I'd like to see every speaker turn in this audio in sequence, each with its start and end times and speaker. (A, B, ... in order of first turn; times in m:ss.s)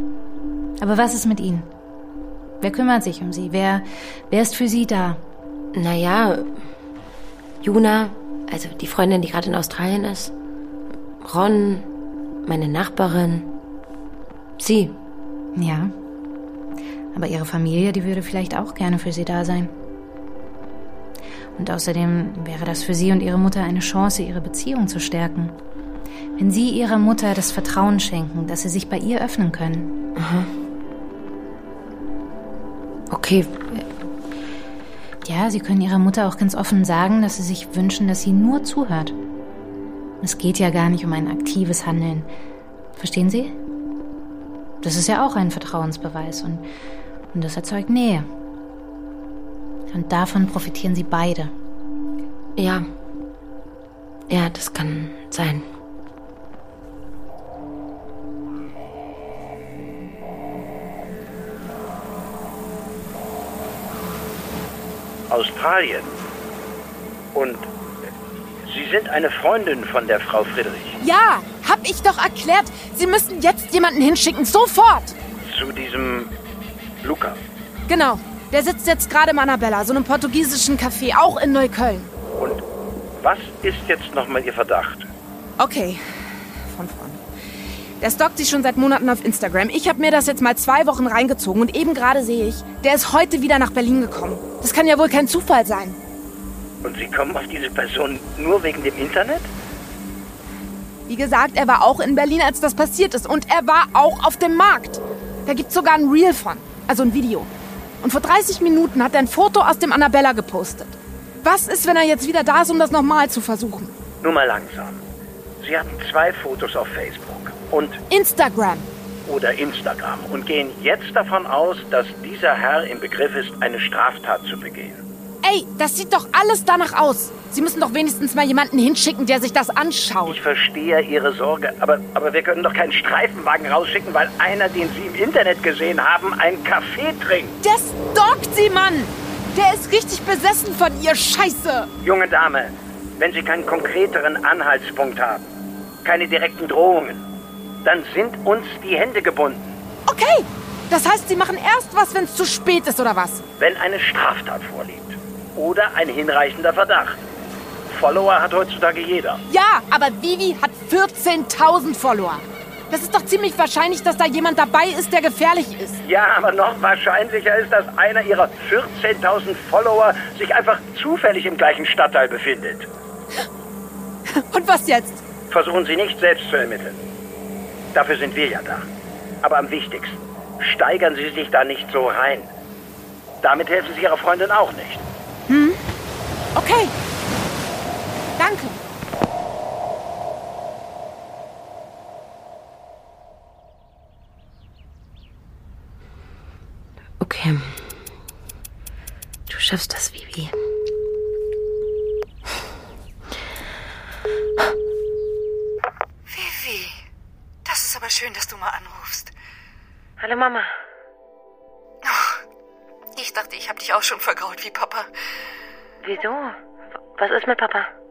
0:00.8-0:01.7 A
0:02.6-0:05.2 A
0:05.7-0:06.5 B
0:07.6-0:10.3 B
0:11.2-0:11.9 B
0:12.5-0:13.5 B
0:14.6-0:15.0 B
0:15.6-0:15.9 A
0:17.1-0:19.7 A
0:21.6-0:25.6 A
0:26.4-0:30.0 A
0:30.2-0:30.5 B
0:33.1-0:33.9 B
0:35.2-0:39.2 A
0:40.2-0:42.3 A
0:43.0-0:43.6 A
0:44.8-0:46.7 A
0:47.3-0:48.3 A
0:49.9-0:51.5 A
0:52.6-0:52.9 B
0:54.3-0:55.6 B
1:05.3-1:06.2 C
1:07.3-1:07.7 C
1:08.7-1:11.0 C
1:11.0-1:15.2 D
1:15.4-1:16.3 C
1:17.0-1:17.4 C
1:17.9-1:22.1 D
1:23.2-1:25.1 C
1:25.6-1:27.2 D
1:28.0-1:36.0 D
1:36.8-1:39.5 C
1:41.1-1:47.5 D
1:48.0-1:54.0 D
1:54.2-1:55.0 C
1:55.6-1:58.0 C
1:58.1-1:58.9 D
1:59.3-2:05.0 C
2:05.4-2:10.4 D
2:10.2-2:17.6 C
2:17.6-2:21.9 D
2:22.0-2:25.5 C
2:26.0-2:27.3 C
2:27.8-2:29.8 C
2:30.1-2:33.4 D
2:33.6-2:37.2 C
2:37.9-2:39.4 C
2:39.5-2:46.0 D
2:46.0-2:52.9 C
2:54.3-2:55.2 D
2:55.5-2:57.0 C
2:57.9-2:58.9 C
2:59.4-3:02.5 C
3:03.4-3:05.0 C
3:05.5-3:05.8 D
3:06.6-3:06.9 D
3:08.4-3:08.8 D
3:17.2-3:17.8 B
3:19.5-3:20.5 B
3:26.3-3:27.0 E
3:27.6-3:29.3 E
3:30.2-3:30.7 B
3:32.0-3:32.4 E
3:33.2-3:35.1 E
3:36.0-3:36.6 B
3:37.2-3:37.9 B